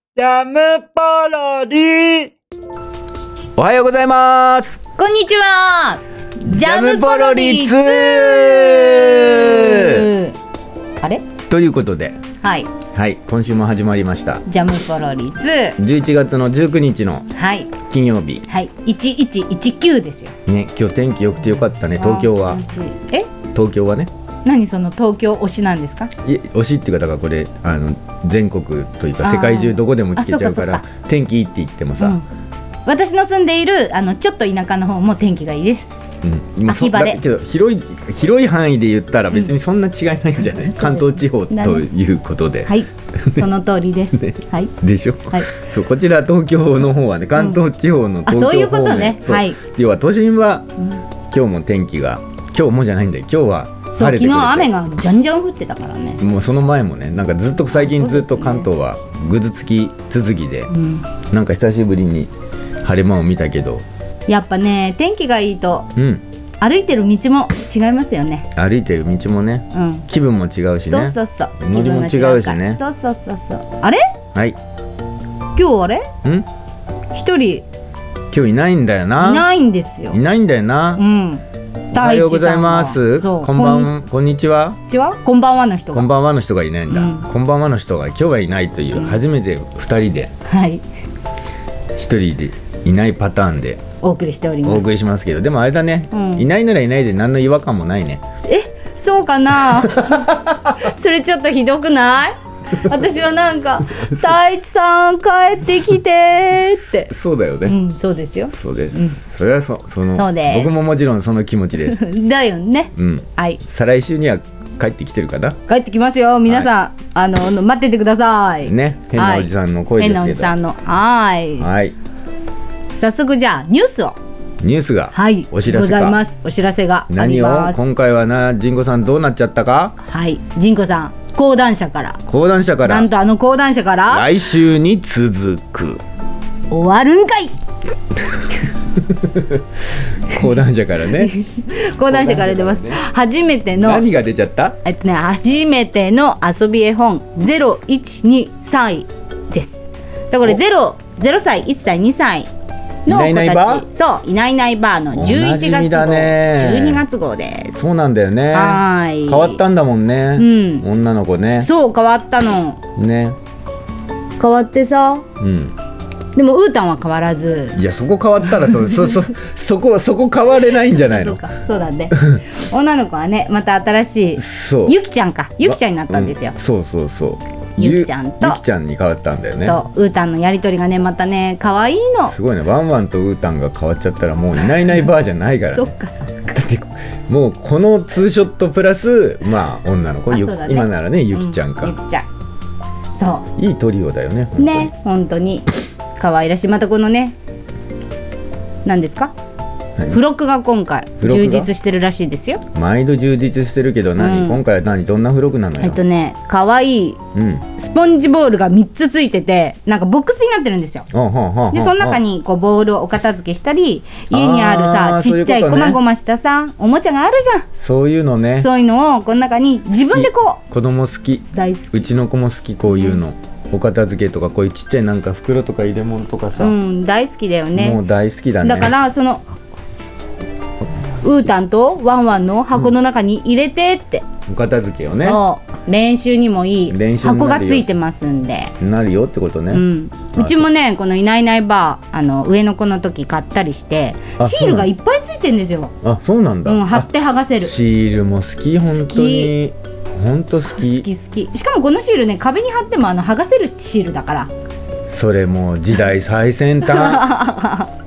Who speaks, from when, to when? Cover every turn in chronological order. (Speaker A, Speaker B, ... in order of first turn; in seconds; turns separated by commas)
Speaker A: 0.3-2.3, Speaker B: 3.5-4.8, Speaker C: 5.0-10.4, Speaker B: 6.4-10.1, Speaker C: 11.0-11.2, Speaker B: 11.5-12.2, Speaker C: 12.4-12.7, Speaker B: 12.9-14.4, Speaker C: 14.4-15.8, Speaker B: 15.8-17.3, Speaker C: 17.3-17.7, Speaker B: 17.8-18.4, Speaker C: 18.5-20.3, Speaker B: 20.5-22.6, Speaker C: 22.0-23.3, Speaker B: 23.5-24.1, Speaker C: 24.4-26.1, Speaker B: 26.2-32.2, Speaker C: 29.2-30.8, Speaker C: 32.0-32.2, Speaker C: 32.9-36.0, Speaker B: 36.2-42.8, Speaker C: 36.7-37.2, Speaker C: 40.5-41.9, Speaker C: 42.6-44.7, Speaker B: 44.1-50.7, Speaker C: 48.2-49.6, Speaker B: 51.3-54.7, Speaker C: 53.9-56.2, Speaker B: 56.2-60.7, Speaker C: 57.6-58.7, Speaker C: 60.7-61.1, Speaker B: 61.3-62.3, Speaker B: 62.8-63.8, Speaker C: 64.3-65.9, Speaker B: 66.0-66.2, Speaker C: 66.6-68.5, Speaker B: 68.5-72.8, Speaker C: 69.7-70.1, Speaker C: 70.8-74.0, Speaker C: 75.5-76.1, Speaker C: 77.1-77.6, Speaker B: 78.3-79.5, Speaker C: 79.2-80.2, Speaker B: 80.1-81.0, Speaker C: 81.0-83.9, Speaker B: 81.9-84.8, Speaker C: 84.9-86.0, Speaker B: 85.9-90.3, Speaker C: 86.9-87.2, Speaker C: 88.9-89.2, Speaker C: 90.5-90.8, Speaker B: 92.0-93.8, Speaker C: 94.0-95.0, Speaker B: 94.6-98.2, Speaker C: 96.1-96.5, Speaker C: 98.5-107.1, Speaker B: 99.5-100.7, Speaker B: 103.9-104.2, Speaker B: 106.8-107.8, Speaker C: 107.7-109.2, Speaker B: 108.5-112.0, Speaker C: 110.1-110.7, Speaker C: 111.8-113.6, Speaker B: 112.9-115.6, Speaker C: 115.7-121.7, Speaker B: 116.4-116.7, Speaker B: 118.6-120.5, Speaker B: 121.6-121.9, Speaker C: 122.9-124.2, Speaker B: 124.6-126.2, Speaker C: 125.1-127.9, Speaker B: 127.1-129.9, Speaker C: 130.0-132.2, Speaker B: 132.3-133.1, Speaker C: 132.8-134.3, Speaker B: 134.1-136.0, Speaker C: 136.7-137.6, Speaker B: 139.0-139.6, Speaker B: 140.2-141.3, Speaker C: 141.2-144.1, Speaker B: 142.0-143.0, Speaker B: 143.7-144.8, Speaker C: 144.8-152.5, Speaker C: 153.1-157.9, Speaker B: 153.1-153.9, Speaker B: 155.1-157.0, Speaker B: 157.7-161.7, Speaker C: 158.5-159.6, Speaker C: 160.4-160.8, Speaker C: 161.6-162.8, Speaker B: 163.0-163.4, Speaker C: 164.4-165.2, Speaker B: 165.4-165.7, Speaker C: 166.3-167.8, Speaker B: 167.7-171.4, Speaker C: 170.8-176.5, Speaker B: 174.4-175.0, Speaker B: 175.6-179.8, Speaker C: 177.8-178.6, Speaker C: 179.6-182.3, Speaker B: 182.2-185.9, Speaker C: 185.7-186.6, Speaker B: 186.5-191.9, Speaker C: 190.3-192.3, Speaker C: 193.1-193.5, Speaker B: 193.6-194.9, Speaker C: 194.6-197.3, Speaker C: 198.8-199.3, Speaker C: 200.1-202.6, Speaker B: 201.2-201.7, Speaker B: 202.7-206.0, Speaker C: 204.2-204.6, Speaker C: 205.8-207.2, Speaker B: 207.3-207.7, Speaker C: 207.7-211.1, Speaker B: 211.1-212.2, Speaker C: 211.7-217.7, Speaker B: 214.3-216.0, Speaker B: 217.8-218.7, Speaker C: 218.6-220.6, Speaker B: 220.1-226.8, Speaker C: 221.5-222.1, Speaker C: 226.6-228.0, Speaker B: 227.7-228.9, Speaker C: 228.6-229.4, Speaker C: 231.1-234.3, Speaker B: 234.5-235.4, Speaker C: 235.2-238.7, Speaker B: 236.9-237.9, Speaker B: 238.8-240.7, Speaker C: 239.7-245.9, Speaker B: 244.4-244.9, Speaker B: 246.0-251.1, Speaker C: 246.6-247.7, Speaker C: 248.8-249.5, Speaker C: 250.7-254.5, Speaker B: 255.1-257.3, Speaker C: 256.8-257.9